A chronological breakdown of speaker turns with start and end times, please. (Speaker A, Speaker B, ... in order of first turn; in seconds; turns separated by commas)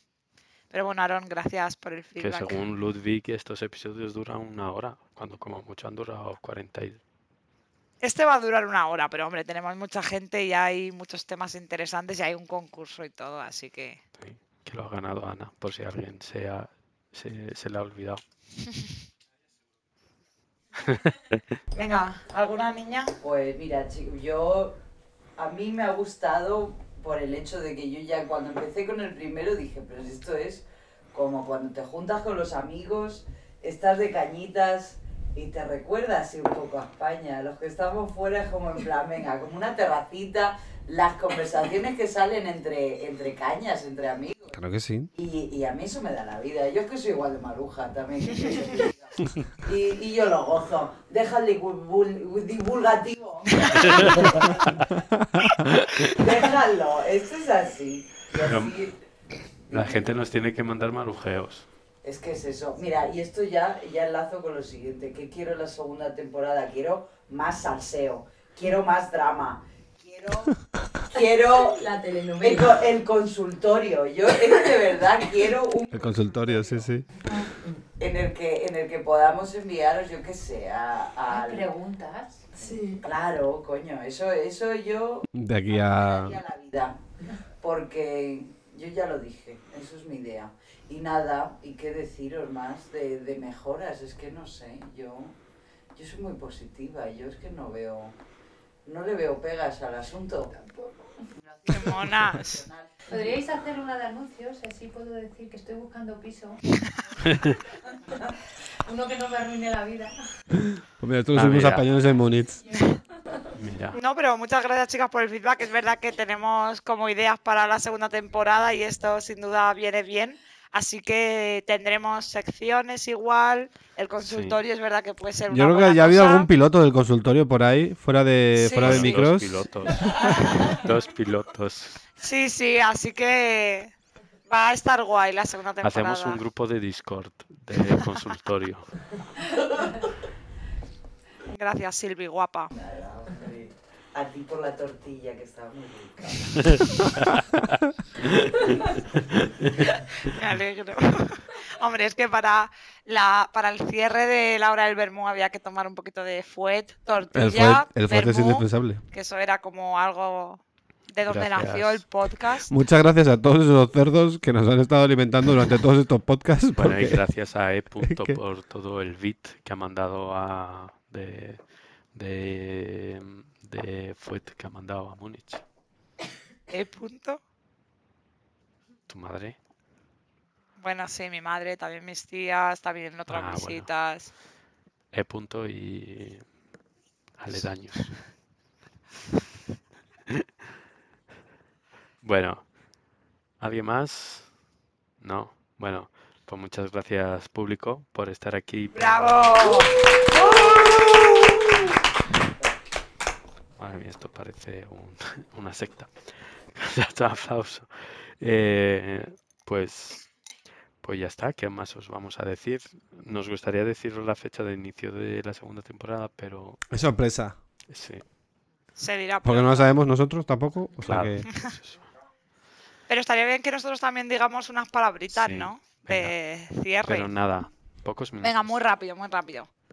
Speaker A: 0.7-2.6, Speaker B: 2.2-7.0, Speaker A: 8.0-14.0, Speaker B: 14.2-18.2, Speaker B: 20.9-21.4, Speaker A: 21.8-23.1, Speaker C: 23.2-24.8, Speaker C: 25.4-44.6, Speaker D: 44.5-45.1, Speaker C: 45.1-54.9, Speaker A: 53.6-54.0, Speaker B: 53.8-54.4, Speaker B: 55.8-56.1, Speaker C: 56.0-58.9, Speaker B: 58.4-58.8, Speaker B: 59.7-61.7, Speaker C: 62.0-71.8, Speaker E: 71.1-72.8, Speaker C: 72.4-76.8, Speaker D: 75.9-77.1, Speaker E: 77.2-77.8, Speaker C: 78.0-81.7, Speaker E: 81.3-83.0, Speaker C: 82.6-87.0, Speaker D: 85.3-86.4, Speaker C: 87.6-95.4, Speaker C: 95.9-98.2, Speaker C: 98.8-100.6, Speaker C: 101.5-102.8, Speaker A: 101.7-102.7, Speaker E: 103.1-106.6, Speaker E: 108.8-110.1, Speaker D: 111.0-112.7, Speaker B: 111.3-111.9, Speaker B: 113.5-114.0, Speaker A: 114.0-126.5, Speaker B: 124.2-124.6, Speaker D: 125.5-129.7, Speaker A: 128.6-129.2, Speaker B: 128.8-132.0, Speaker A: 132.2-133.9, Speaker A: 134.5-136.4, Speaker B: 135.8-139.0, Speaker A: 141.5-142.7, Speaker C: 142.8-146.8, Speaker B: 146.9-147.3, Speaker B: 148.3-149.7, Speaker A: 150.2-162.7, Speaker D: 157.3-159.0, Speaker B: 161.3-162.1, Speaker D: 162.7-167.2, Speaker B: 166.8-171.6, Speaker D: 168.0-168.4, Speaker B: 172.1-175.6, Speaker A: 176.7-177.4, Speaker B: 179.1-179.6, Speaker A: 180.8-184.3, Speaker B: 183.3-183.9, Speaker B: 185.1-186.4, Speaker B: 187.4-188.2, Speaker B: 192.2-192.7, Speaker B: 193.6-194.5, Speaker B: 195.2-200.0, Speaker A: 198.9-201.6, Speaker B: 203.8-206.1, Speaker B: 206.7-210.3, Speaker B: 211.0-216.8, Speaker D: 216.9-217.6, Speaker B: 217.9-218.2, Speaker A: 219.0-219.9, Speaker D: 219.4-221.5, Speaker B: 221.1-222.0, Speaker A: 223.1-227.3, Speaker B: 225.3-226.3, Speaker B: 227.0-228.8, Speaker A: 228.4-229.7